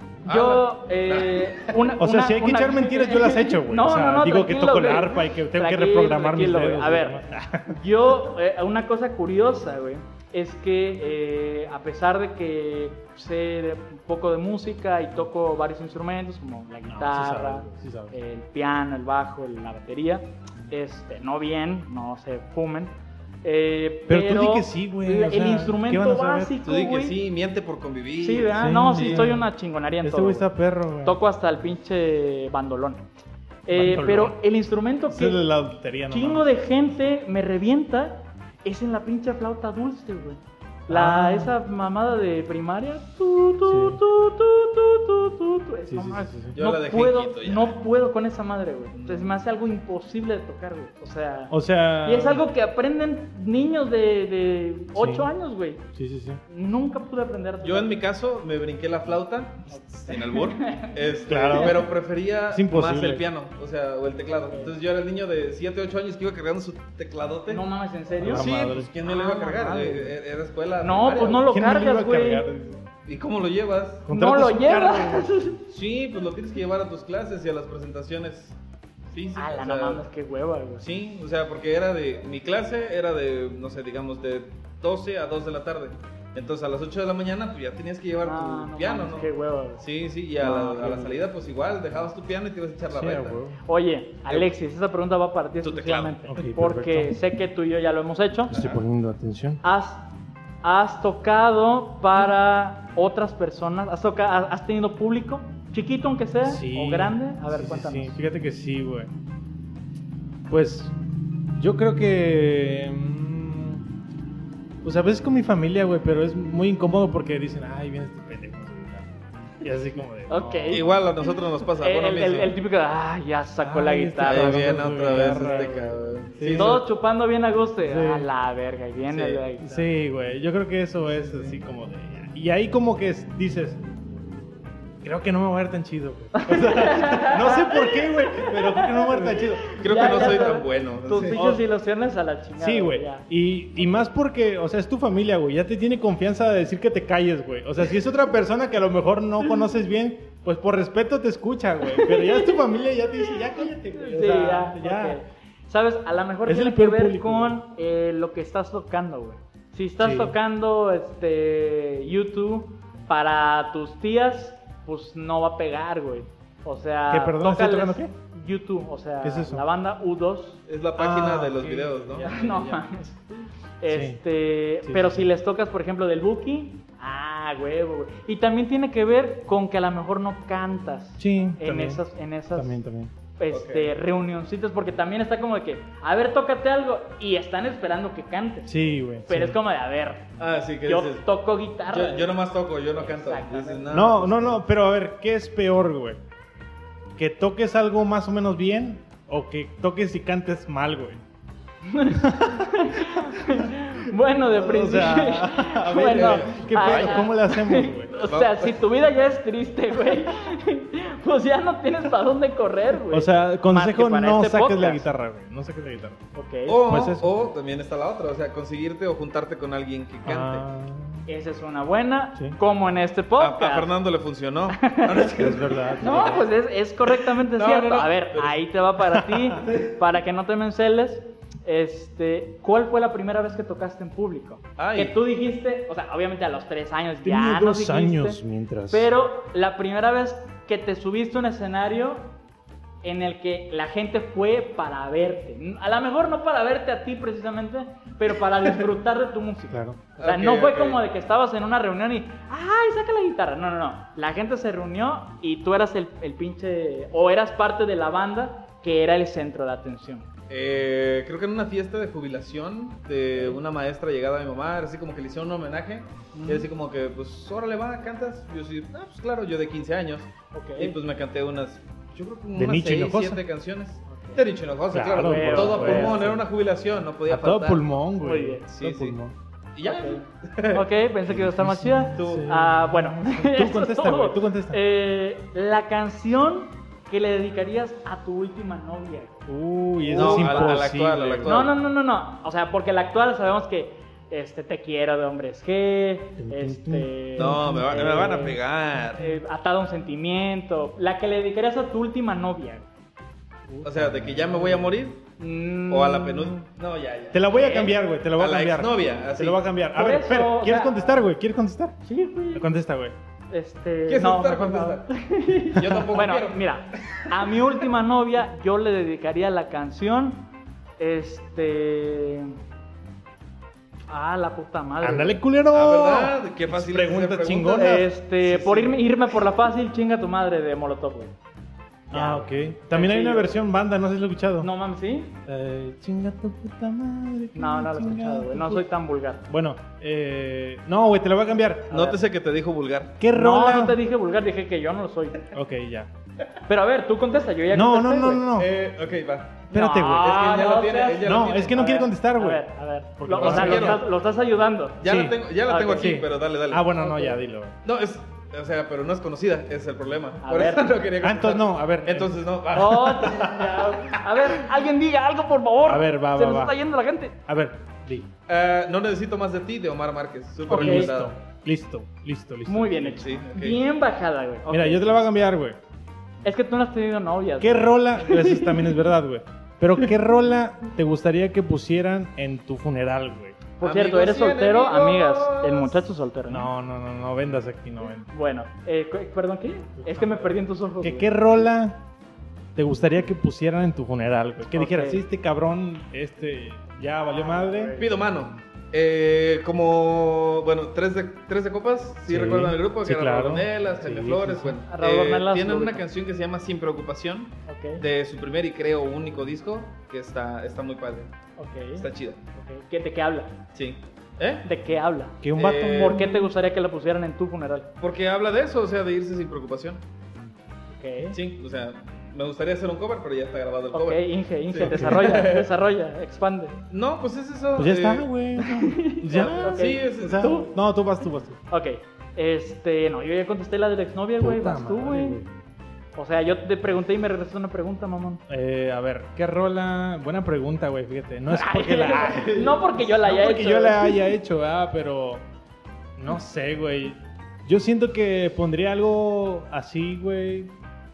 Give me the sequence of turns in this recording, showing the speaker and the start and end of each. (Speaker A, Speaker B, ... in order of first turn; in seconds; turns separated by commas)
Speaker A: 0.2-1.9, Speaker B: 0.2-27.2, Speaker C: 2.0-7.8, Speaker C: 16.9-18.1, Speaker C: 24.1-26.6, Speaker A: 26.6-29.4, Speaker B: 28.2-30.5, Speaker C: 28.5-29.5, Speaker C: 30.0-31.2, Speaker B: 31.0-33.0, Speaker B: 33.7-35.5, Speaker C: 33.7-34.4, Speaker C: 35.1-36.5, Speaker B: 36.1-55.9, Speaker C: 40.9-41.5, Speaker C: 43.6-44.0, Speaker C: 45.9-46.5, Speaker A: 46.5-47.8, Speaker A: 48.9-49.3, Speaker C: 51.5-52.5, Speaker C: 55.0-55.3, Speaker C: 56.0-56.4, Speaker B: 56.5-58.0, Speaker A: 57.6-67.7, Speaker B: 59.7-61.0, Speaker C: 61.3-61.9, Speaker C: 62.5-63.2, Speaker B: 64.5-64.7, Speaker B: 67.5-70.1, Speaker C: 68.2-68.9, Speaker A: 68.2-71.5, Speaker B: 70.8-72.5, Speaker C: 71.5-72.8, Speaker A: 73.1-74.1, Speaker C: 74.1-75.3, Speaker B: 74.1-75.6, Speaker A: 75.7-78.6, Speaker A: 79.1-80.0, Speaker B: 79.3-80.8, Speaker A: 80.8-93.4, Speaker B: 88.2-89.8, Speaker B: 90.4-91.2, Speaker C: 92.9-93.6, Speaker B: 93.7-98.6, Speaker A: 94.3-94.5, Speaker A: 95.6-96.2, Speaker C: 96.3-97.2, Speaker C: 98.5-99.6, Speaker A: 98.5-98.8, Speaker B: 99.6-100.1, Speaker B: 100.6-108.2, Speaker C: 106.4-109.1, Speaker C: 110.5-110.9, Speaker C: 111.6-113.9, Speaker C: 114.8-120.9, Speaker B: 120.3-120.9, Speaker A: 120.7-122.6, Speaker B: 121.8-125.9, Speaker C: 123.6-126.8, Speaker A: 124.2-126.8, Speaker B: 126.5-129.9, Speaker C: 127.8-128.3, Speaker A: 129.1-129.4, Speaker C: 129.6-133.8, Speaker A: 131.2-131.6, Speaker C: 135.0-140.5, Speaker B: 136.3-143.3, Speaker A: 139.8-141.5, Speaker C: 141.4-141.6, Speaker C: 142.6-155.2, Speaker B: 151.9-152.6, Speaker B: 153.2-170.6, Speaker C: 156.5-157.6, Speaker C: 160.0-160.4, Speaker C: 167.1-168.1, Speaker C: 169.2-169.6, Speaker A: 170.7-172.8, Speaker C: 171.0-172.3, Speaker B: 172.2-182.8, Speaker C: 173.9-174.2, Speaker C: 174.8-175.3, Speaker C: 181.2-182.0, Speaker C: 182.6-183.1, Speaker B: 183.4-188.7, Speaker A: 183.5-183.9, Speaker C: 188.7-189.6, Speaker B: 189.3-190.3, Speaker A: 190.4-191.3, Speaker B: 190.8-192.4, Speaker A: 191.9-194.6, Speaker B: 192.9-193.9, Speaker C: 193.9-196.2, Speaker C: 197.2-201.2, Speaker B: 201.8-215.1, Speaker C: 202.1-203.8, Speaker C: 204.5-208.1, Speaker A: 206.0-207.3, Speaker A: 208.1-208.8, Speaker C: 213.1-216.2, Speaker B: 216.3-216.8, Speaker A: 216.7-220.7, Speaker C: 216.8-217.3, Speaker C: 220.3-221.3, Speaker B: 221.3-223.9, Speaker A: 223.4-226.5, Speaker B: 224.7-225.3, Speaker C: 225.4-226.5, Speaker B: 226.0-242.3, Speaker A: 227.1-228.7, Speaker C: 229.3-229.7, Speaker A: 229.6-229.9, Speaker A: 234.8-235.2, Speaker C: 237.2-239.1, Speaker B: 243.0-260.3, Speaker C: 249.7-250.0, Speaker A: 250.2-251.0, Speaker A: 260.5-277.8, Speaker B: 266.3-266.7, Speaker B: 270.5-270.9, Speaker C: 272.6-273.4, Speaker B: 274.1-274.4, Speaker C: 274.9-276.4, Speaker B: 275.2-276.3, Speaker C: 277.3-279.4, Speaker B: 278.2-278.6, Speaker A: 278.7-279.2, Speaker A: 279.8-280.9, Speaker B: 279.8-289.4, Speaker C: 281.3-284.8, Speaker A: 282.1-282.5, Speaker C: 289.5-291.6, Speaker B: 290.0-290.9, Speaker A: 290.1-291.8, Speaker B: 291.4-298.6, Speaker C: 296.4-298.6, Speaker A: 297.4-299.3, Speaker B: 299.1-302.9, Speaker C: 303.7-304.9, Speaker A: 303.8-305.2, Speaker B: 305.4-306.7, Speaker A: 305.9-307.6, Speaker C: 307.3-312.0, Speaker B: 307.5-307.9, Speaker A: 308.4-309.6, Speaker B: 309.9-311.2, Speaker B: 312.0-312.7, Speaker C: 312.5-313.1, Speaker B: 313.5-320.5, Speaker A: 314.1-315.1, Speaker A: 315.6-317.6, Speaker B: 321.0-322.6, Speaker B: 324.1-325.4, Speaker C: 325.0-329.0, Speaker A: 325.7-327.9, Speaker B: 327.7-331.3, Speaker B: 332.1-333.6, Speaker C: 332.1-334.7, Speaker B: 334.6-335.4, Speaker C: 335.5-338.9, Speaker B: 337.6-339.5, Speaker C: 339.5-342.0, Speaker B: 341.9-342.2, Speaker A: 341.9-343.2, Speaker C: 343.2-344.0, Speaker B: 343.3-345.5, Speaker C: 345.5-346.1, Speaker B: 346.7-348.5, Speaker C: 347.7-348.7, Speaker A: 348.6-351.9, Speaker C: 349.7-350.4, Speaker B: 349.7-355.0, Speaker C: 351.2-352.7, Speaker C: 353.2-354.1, Speaker A: 353.3-354.1, Speaker A: 355.0-356.9, Speaker C: 355.0-355.4, Speaker B: 355.7-356.2, Speaker C: 355.9-357.8, Speaker B: 356.9-357.4, Speaker A: 357.8-363.6, Speaker B: 360.4-360.9, Speaker C: 361.2-363.8, Speaker B: 362.7-367.4, Speaker C: 365.9-366.8, Speaker C: 367.5-368.3, Speaker A: 368.5-371.3, Speaker B: 370.7-371.1, Speaker C: 370.7-373.4, Speaker B: 372.7-375.1, Speaker A: 373.2-373.8, Speaker C: 374.7-375.8, Speaker B: 376.4-378.9, Speaker C: 377.6-383.6, Speaker B: 383.8-386.7, Speaker A: 383.8-386.1, Speaker C: 386.5-388.3, Speaker B: 388.3-391.4, Speaker C: 390.0-392.0, Speaker C: 392.8-398.0, Speaker B: 394.7-395.2, Speaker B: 397.3-398.1, Speaker A: 398.0-411.3, Speaker C: 402.3-404.8, Speaker B: 404.9-406.1, Speaker B: 407.7-408.0, Speaker B: 411.6-413.6, Speaker A: 411.9-412.4, Speaker A: 413.7-414.7, Speaker B: 414.6-415.4, Speaker C: 415.4-416.2, Speaker A: 415.6-416.4, Speaker B: 415.9-417.9, Speaker A: 418.0-420.0, Speaker B: 420.9-421.4, Speaker A: 421.3-425.7, Speaker B: 423.9-426.8, Speaker C: 424.8-425.4, Speaker A: 426.9-428.3, Speaker C: 427.8-431.6, Speaker B: 428.6-430.7, Speaker A: 429.2-430.6, Speaker B: 431.7-435.4, Speaker C: 434.4-435.5, Speaker B: 436.1-438.4, Speaker C: 438.5-445.4, Speaker B: 441.5-444.2, Speaker C: 446.2-450.7